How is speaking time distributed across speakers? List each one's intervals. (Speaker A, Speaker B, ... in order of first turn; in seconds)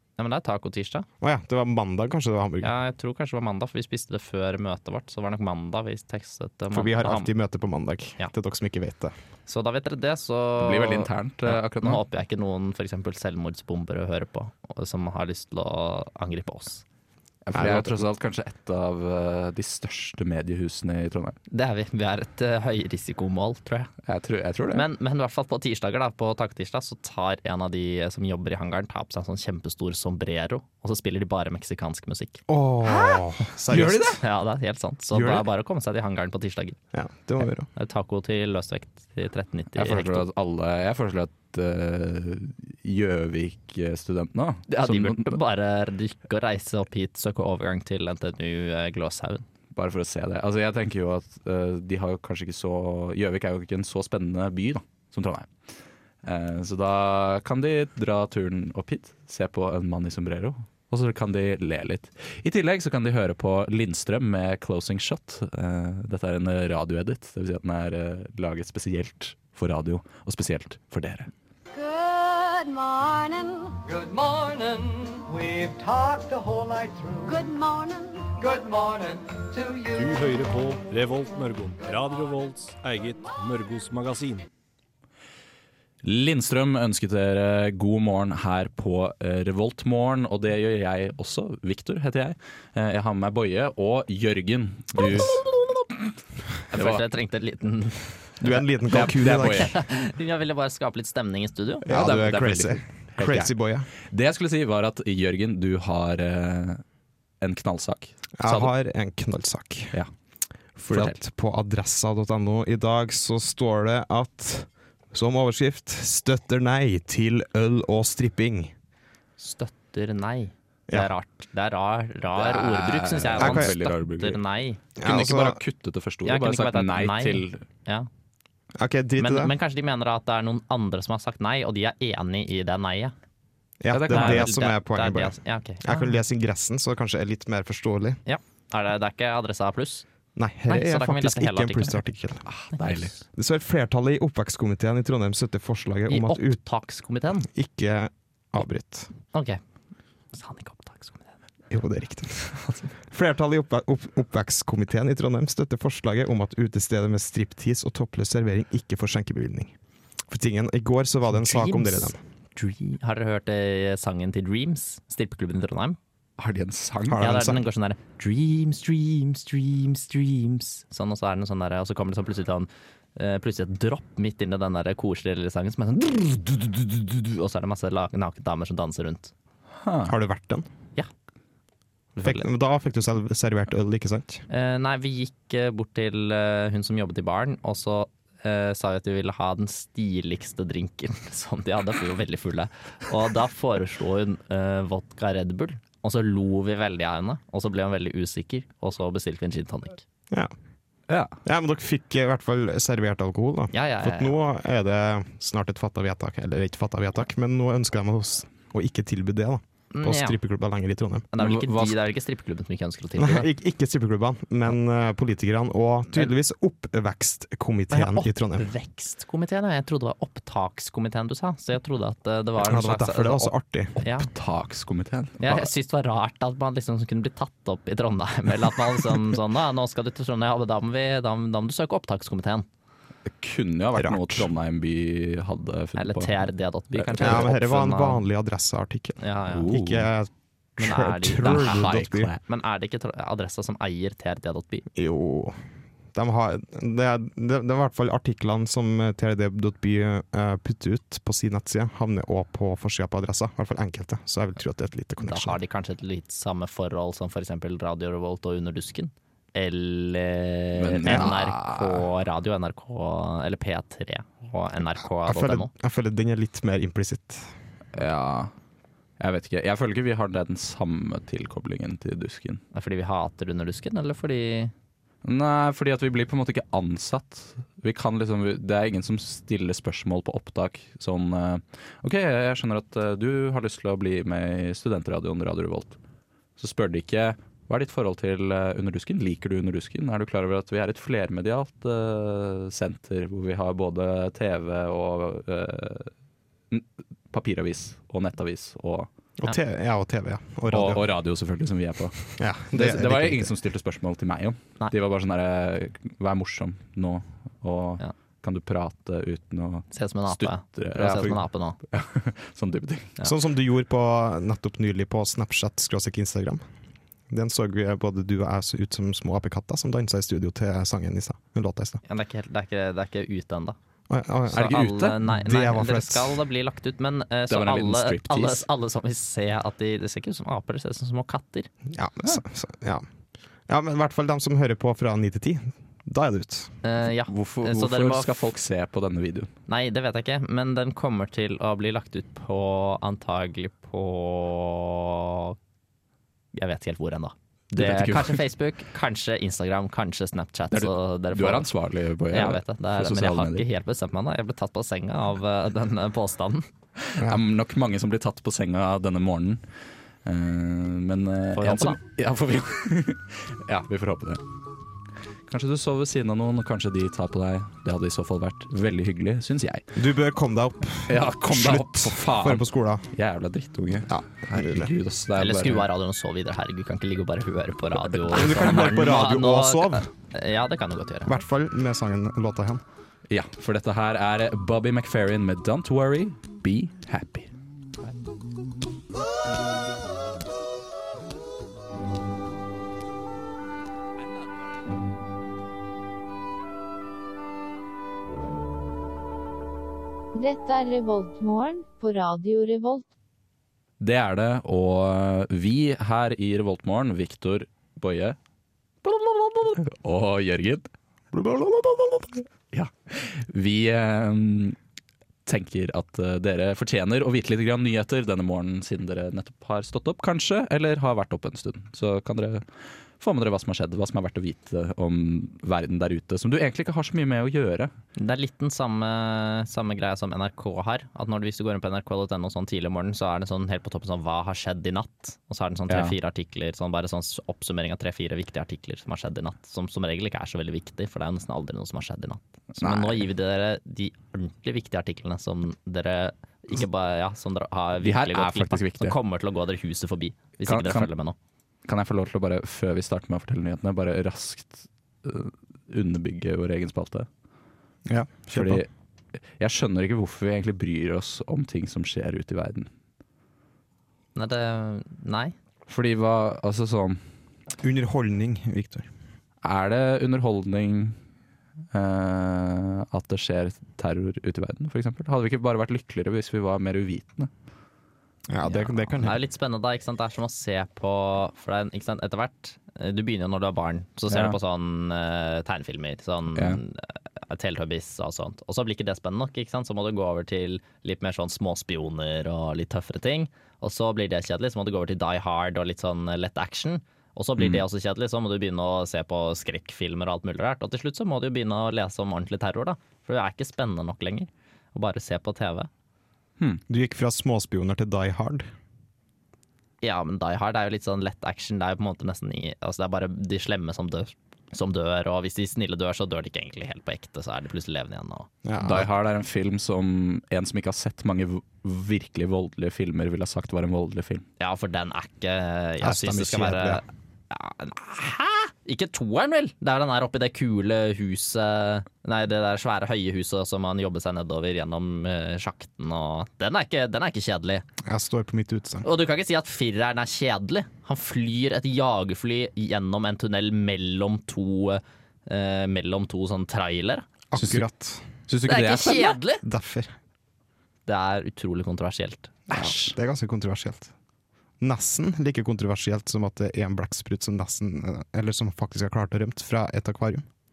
Speaker A: 0.2-1.1, 2.6-7.3, 9.5-16.8, 21.5-23.9, 24.7-32.4, 34.2-36.8, 37.7-40.2, 44.7-49.4, 96.7-98.1, 99.5-101.8, 119.4-124.8, 126.2-128.1, 129.2-133.1, 134.1-136.1, 138.2-140.1, 140.7-142.0, 142.7-143.1, 146.1-147.5, 149.3-149.6, 150.3-151.3, 161.3-166.0, 167.2-179.3, 182.2-182.5, 184.5-200.0, 203.7-204.4, 209.9-210.4, 211.3-213.5, 217.9-224.3, 225.4-232.7, 236.0-238.2, 239.2-239.7, 240.8-244.8, 255.2-265.7, 272.7-274.7, 309.9-311.8, 322.1-323.8, 324.5-331.7, 336.8-338.5, 339.7-345.6, 346.5-351.7, 352.3-356.6, 361.5-362.0, 375.4-381.4, 428.2-451.4, 464.3-465.5, 478.6-505.9, 510.0-518.5, 524.6-537.8, 539.0-547.2, 548.6-549.6, 551.1-552.6
Speaker B: 1.2-2.7, 6.7-9.1, 17.5-18.0, 32.5-34.2, 35.1-35.4, 36.9-37.7, 98.4-99.7, 101.8-103.9, 108.4-110.0, 110.8-118.7, 123.4-123.7, 125.0-125.6, 128.8-129.5, 133.8-138.2, 140.3-142.5, 143.3-146.6, 147.5-149.1, 151.7-159.7, 160.3-162.2, 167.1-167.6, 180.0-180.7, 182.2-184.4, 201.4-211.3, 213.2-218.7, 222.6-224.0, 233.9-234.5, 237.2-242.3, 244.9-245.6, 246.1-255.6, 261.1-261.3, 265.2-267.5, 299.4-301.1, 302.4-303.5, 313.2-316.6, 317.3-322.0, 324.1-326.4, 331.9-333.0, 333.7-336.7, 369.9-373.1, 374.1-374.9, 378.3-380.1, 381.2-382.8, 411.3-412.4, 458.1-458.8, 467.8-469.1, 478.5-479.4, 506.9-508.7, 518.6-519.1, 526.0-527.0, 538.0-539.0, 547.5-548.2, 549.6-550.1, 552.7-554.1, 554.8-560.4
Speaker C: 10.6-12.0, 17.4-21.4, 24.0-24.9, 33.7-34.2, 39.8-45.4, 49.7-55.5, 56.2-71.3, 86.0-95.8, 96.5-97.0, 98.9-99.8, 101.8-103.5, 104.1-106.8, 107.4-108.7, 110.9-111.2, 122.4-124.4, 125.0-127.6, 133.9-134.5, 142.5-143.1, 166.4-167.3, 179.8-180.1, 201.1-201.4, 211.4-212.0, 224.0-225.7, 233.3-237.5, 239.5-240.1, 241.4-242.4, 260.8-262.0, 267.9-268.5, 269.2-272.6, 275.2-286.0, 286.6-296.1, 296.7-299.1, 300.7-313.1, 324.5-325.2, 327.5-328.6, 337.3-339.5, 347.7-348.4, 350.7-353.6, 357.1-359.6, 360.2-364.4, 365.5-369.8, 371.1-375.9, 378.0-378.9, 383.3-387.5, 404.0-408.4, 409.0-410.9, 412.7-414.8, 415.4-422.6, 423.2-427.9, 435.9-436.1, 442.8-443.2, 448.0-449.2, 450.6-451.1, 451.9-457.3, 458.5-458.9, 459.6-462.9, 465.9-467.2, 469.6-471.2, 471.9-477.5, 484.3-484.6, 486.5-486.8, 497.6-497.8, 518.8-524.4, 547.5-547.8, 548.5-549.4, 552.7-553.1
Speaker D: 71.7-73.8, 77.2-78.3
Speaker E: 73.9-77.3, 78.4-79.9
Speaker F: 79.9-84.5
Speaker G: 400.3-403.0